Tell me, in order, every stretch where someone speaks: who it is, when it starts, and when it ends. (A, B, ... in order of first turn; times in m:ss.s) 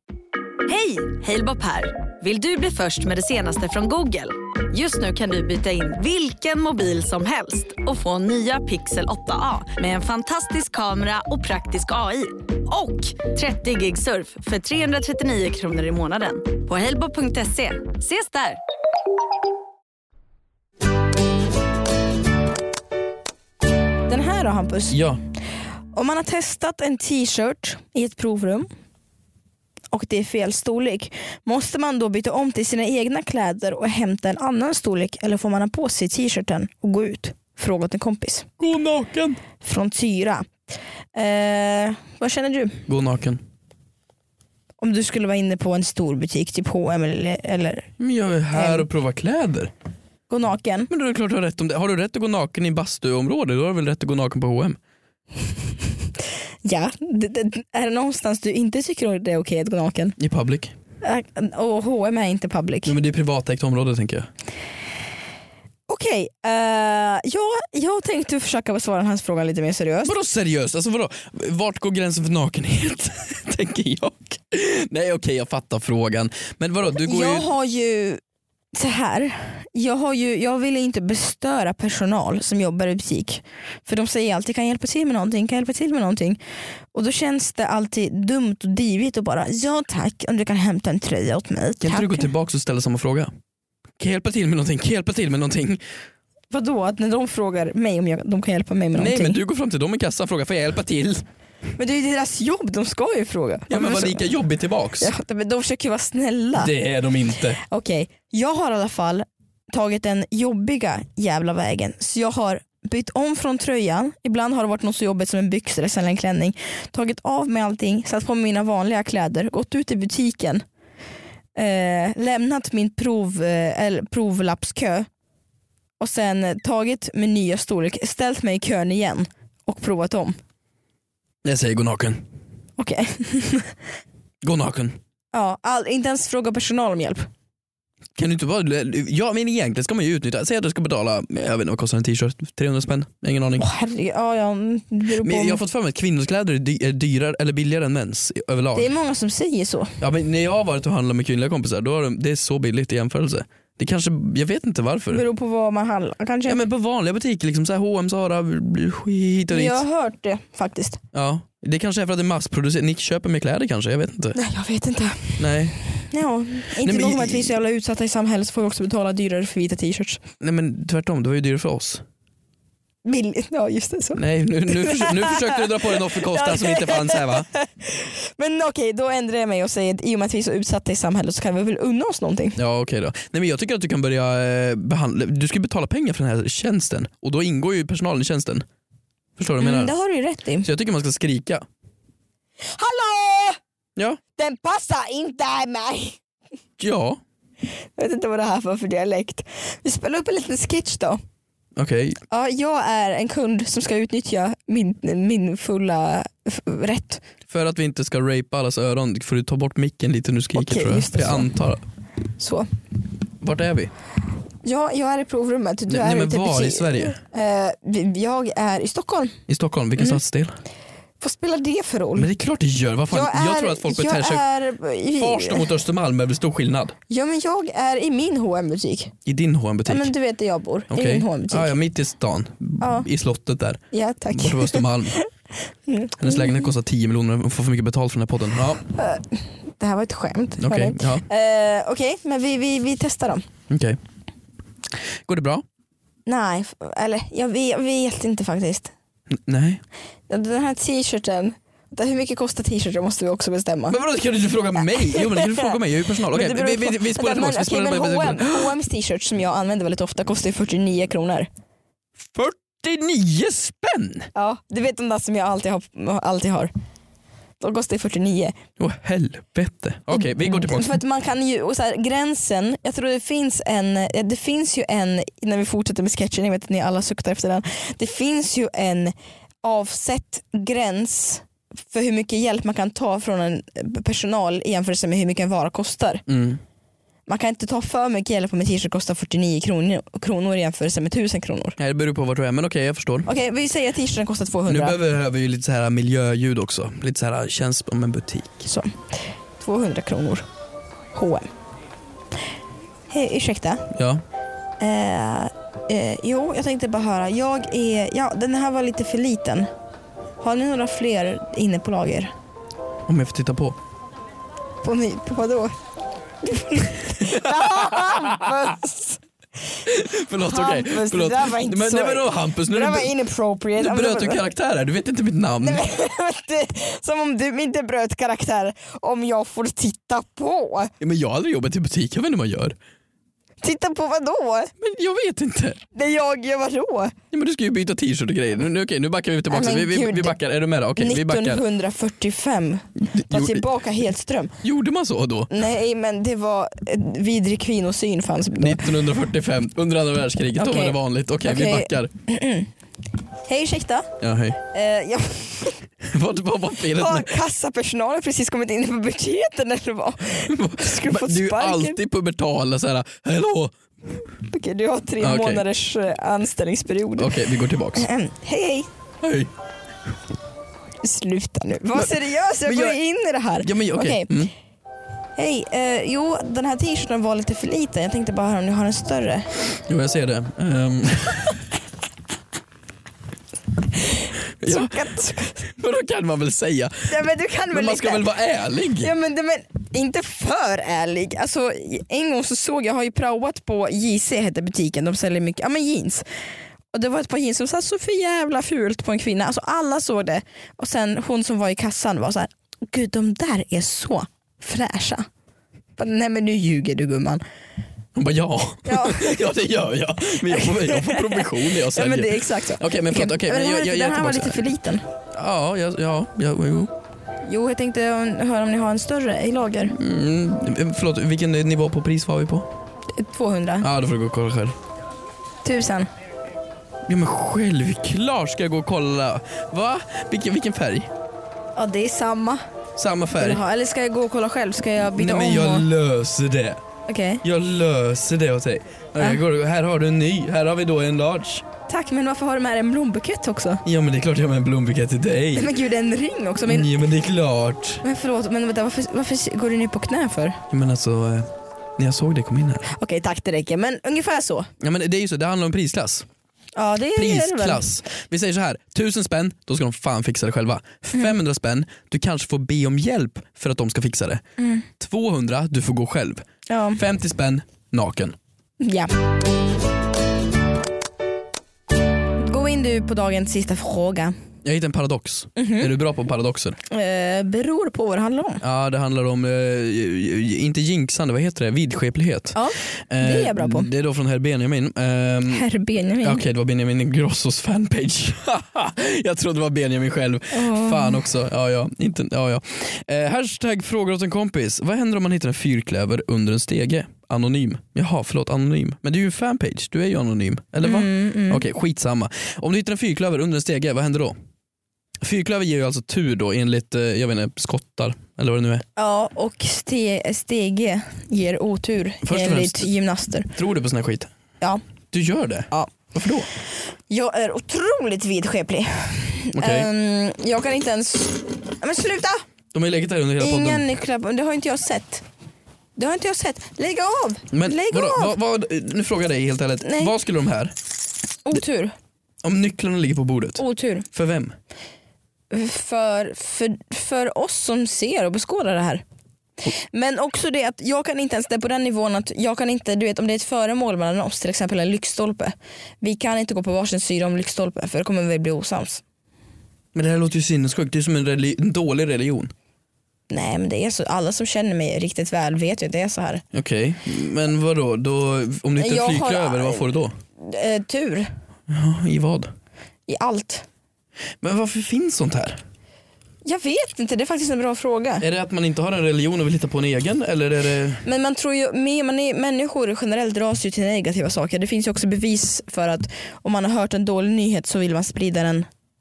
0:00.7-0:18.6 A
0:24.1-0:25.0 B
0:24.9-0:25.2 C
0:25.9-0:28.7 B
0:29.9-0:38.5 B
0:38.6-0:39.4 C
0:39.6-0:40.5 B
0:41.1-0:42.8 B
0:42.9-0:43.4 C
0:44.8-0:47.9 B
0:48.0-0:49.7 C
0:48.5-0:48.9 B
0:50.3-0:50.9 B
0:50.9-0:54.8 C
0:56.6-1:00.2 B
1:00.2-1:00.7 C
1:01.0-1:02.9 B
1:02.8-1:04.3 C
1:05.9-1:10.1 B
1:10.0-1:17.5 C
1:17.0-1:18.2 B
1:18.7-1:26.4 B
1:26.9-1:32.3 B
1:31.8-1:33.3 C
1:34.0-1:35.8 C
1:36.5-1:39.4 B
1:38.9-1:41.2 C
1:41.8-1:44.3 B
1:43.7-1:45.1 C
1:45.0-1:46.7 B
1:46.5-1:47.6 C
1:47.6-2:00.6 B
2:01.6-2:05.1 B
2:06.0-2:10.4 B
2:11.4-2:12.2 C
2:12.8-2:13.7 B
2:14.4-2:15.0 C
2:15.3-2:17.3 B
2:18.2-2:23.7 C
2:23.6-2:25.6 B
2:25.2-2:28.9 C
2:28.7-2:30.0 B
2:30.0-2:35.2 C
2:35.1-2:36.6 B
2:36.5-2:39.8 C
2:39.5-2:41.0 B
2:41.1-2:44.4 C
2:44.3-2:50.2 B
2:45.4-2:45.8 C
2:46.8-2:47.5 C
2:50.4-2:52.0 C
2:53.0-3:02.6 B
2:54.2-2:57.5 C
3:02.6-3:08.6 C
3:09.4-3:09.9 C
3:09.6-3:10.7 B
3:10.6-3:11.6 C
3:12.6-3:13.6 B
3:14.4-3:16.2 B
3:16.8-3:17.2 C
3:18.0-3:21.2 B
3:21.8-3:22.2 C
3:22.3-3:27.2 B
3:27.5-3:31.8 C
3:30.5-3:31.5 B
3:32.4-3:32.7 B
3:33.4-3:33.9 C
3:34.6-3:39.4 B
3:35.9-3:37.2 C
3:39.5-3:40.6 C
3:41.2-3:42.3 B
3:42.1-3:44.4 C
3:43.1-3:45.7 B
3:45.2-3:47.0 C
3:47.1-3:49.1 B
3:49.2-3:50.1 C
3:49.9-3:51.7 B
3:50.9-3:55.2 C
3:52.8-3:53.1 B
3:53.9-3:55.3 B
3:55.9-3:56.7 B
3:56.2-3:58.8 C
3:58.9-4:03.4 B
4:00.6-4:01.2 C
4:03.7-4:04.0 C
4:05.2-4:05.6 C
4:06.2-4:08.9 B
4:09.3-4:09.8 C
4:10.3-4:14.0 B
4:13.9-4:18.8 C
4:14.8-4:21.5 B
4:22.2-4:24.3 C
4:24.3-4:26.7 B
4:27.6-4:28.5 B
4:28.8-4:31.0 C
4:30.1-4:46.2 B
4:46.3-4:46.6 C
4:47.3-4:51.8 B
4:51.8-4:53.3 C
4:53.2-4:55.0 B
4:54.7-4:58.7 C
4:58.6-4:59.0 B
4:59.6-5:00.4 B
5:01.1-5:01.5 B
5:03.1-5:03.9 B
5:03.9-5:04.2 C
5:04.8-5:09.7 B
5:10.4-5:12.3 B
5:13.1-5:13.8 C
5:14.8-5:15.7 B
5:16.4-5:19.2 B
5:17.2-5:18.6 C
5:19.8-5:23.1 C
5:20.4-5:24.4 B
5:23.8-5:25.8 C
5:25.6-5:30.9 B
5:31.0-5:32.8 C
5:33.6-5:34.7 B
5:34.8-5:35.8 C
5:35.9-5:37.1 B
5:37.3-5:41.6 C
5:39.5-5:40.4 B
5:41.0-5:44.6 B
5:43.1-5:43.6 C
5:44.6-5:45.5 C
5:45.5-5:49.0 B
5:48.6-5:52.1 C
5:50.6-5:52.7 B
5:53.4-5:54.1 B
5:54.2-5:54.6 C
5:54.7-5:55.9 B
5:56.0-5:57.4 C
5:56.9-6:02.0 B
6:00.5-6:03.7 C
6:04.5-6:07.3 B
6:05.2-6:05.6 C
6:07.2-6:08.0 C
6:07.9-6:08.9 B
6:09.2-6:09.5 C
6:11.0-6:14.3 B
6:12.6-6:13.0 C
6:13.6-6:14.5 C
6:15.4-6:19.5 B
6:19.9-6:21.6 C
6:24.1-6:25.6 B
6:24.6-6:27.2 C
6:27.1-6:28.3 B
6:27.7-6:29.1 C
6:29.0-6:36.2 B
6:36.9-6:45.2 B
6:46.0-6:47.4 B
6:48.1-6:54.7 C
6:48.8-6:49.6 B
6:50.3-6:55.0 B
6:55.3-6:56.9 C
6:57.4-6:59.9 B
6:59.9-7:02.7 C
7:03.1-7:03.9 B
7:03.8-7:04.8 C
7:05.6-7:06.1 B
7:07.1-7:11.1 C
7:11.8-7:12.6 B
7:13.0-7:13.6 C
7:13.3-7:15.9 B
7:15.1-7:16.8 C
7:17.1-7:17.4 B
7:17.4-7:21.6 C
7:21.9-7:23.8 B
7:23.8-7:25.7 C
7:25.6-7:26.9 B
7:26.6-7:28.0 C
7:28.0-7:30.6 B
7:30.7-7:32.9 C
7:32.9-7:34.7 B
7:34.8-7:36.3 C
7:36.8-7:37.9 B
7:37.1-7:44.4 C
7:44.6-7:44.9 B
7:45.0-7:46.4 C
7:46.7-7:47.0 B
7:47.0-7:48.4 C
7:48.8-7:49.1 B
7:52.4-7:54.3 B
7:54.6-7:56.8 C
7:55.6-7:55.9 B
7:56.9-7:58.6 B
7:58.6-8:02.6 C
8:02.5-8:03.9 B
8:03.1-8:05.6 C
8:05.5-8:06.4 B
8:06.2-8:24.3 C
8:10.5-8:11.2 B
8:20.8-8:21.6 B
8:25.2-8:28.8 C
8:29.0-8:33.5 B
8:32.2-8:32.9 C
8:33.5-8:34.3 C
8:35.1-8:36.5 C
8:37.1-8:42.4 B
8:39.5-8:39.9 C
8:42.7-8:43.8 C
8:43.4-8:45.2 B
8:46.0-8:48.3 B
8:47.5-8:50.8 C
8:49.8-8:50.1 B
8:51.4-8:52.0 B
8:52.4-8:54.5 C
8:53.6-8:54.0 B
8:55.5-8:59.0 B
8:59.6-9:09.0 B
9:09.9-9:12.5 C
9:13.3-9:16.4 B
9:16.5-9:20.1 C
9:18.8-9:21.3 B
9:21.7-9:22.5 C
9:23.1-9:23.6 B
9:24.4-9:25.6 C
9:26.4-9:28.2 B
9:28.2-9:31.0 C
9:31.0-9:38.7 B